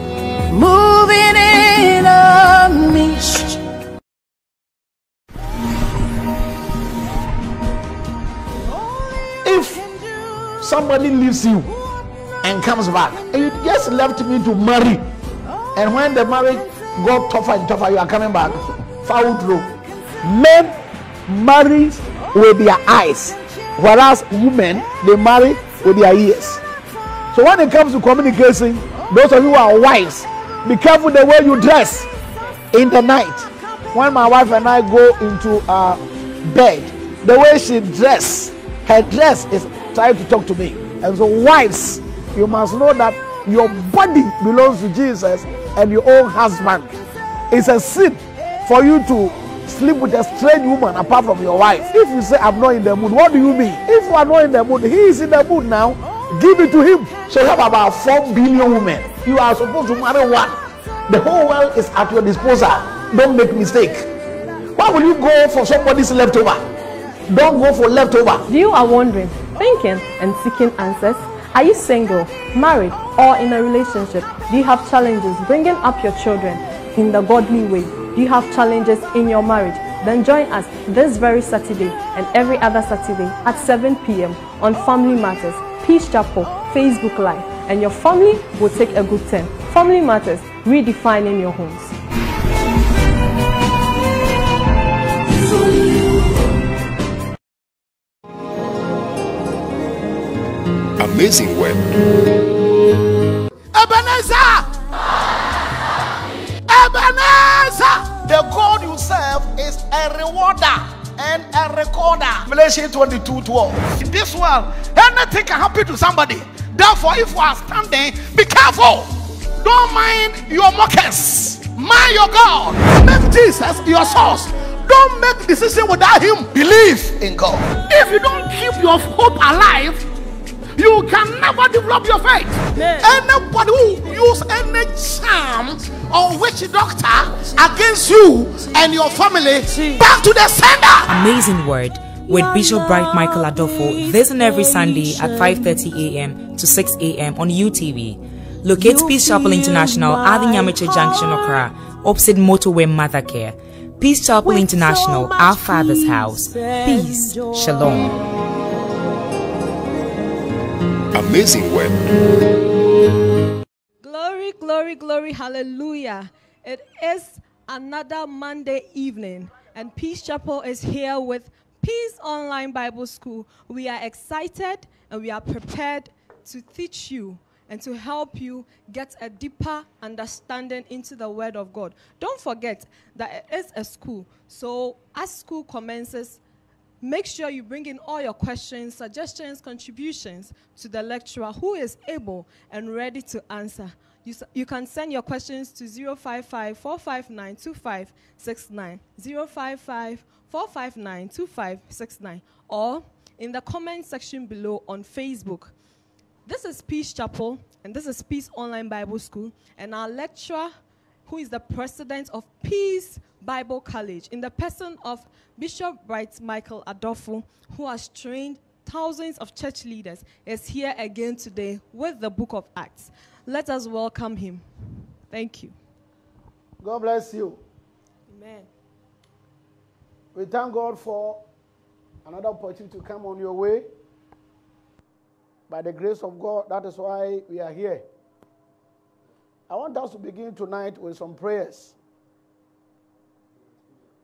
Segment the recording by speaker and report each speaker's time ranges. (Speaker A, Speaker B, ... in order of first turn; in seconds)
Speaker A: 0.5-3.6, 142.2-145.8, 148.7-151.7, 154.4-158.1
Speaker B: 9.4-9.9, 10.6-11.7, 12.4-15.1, 15.7-20.7, 21.3-26.6, 27.3-32.1, 32.7-47.0, 47.5-60.6, 61.1-64.1, 64.7-66.7, 67.3-68.5, 103.7-104.8, 106.7-130.1, 130.8-141.3, 226.8-227.6, 230.3-231.4, 232.2-233.8, 235.7-238.0, 239.7-241.9
Speaker C: 68.5-92.0, 164.0-186.4, 187.0-205.7, 206.4-210.7, 211.2-224.6, 225.3-225.7, 228.3-228.7
Speaker D: 101.0-102.2, 161.1-162.2
Speaker E: 141.1-158.2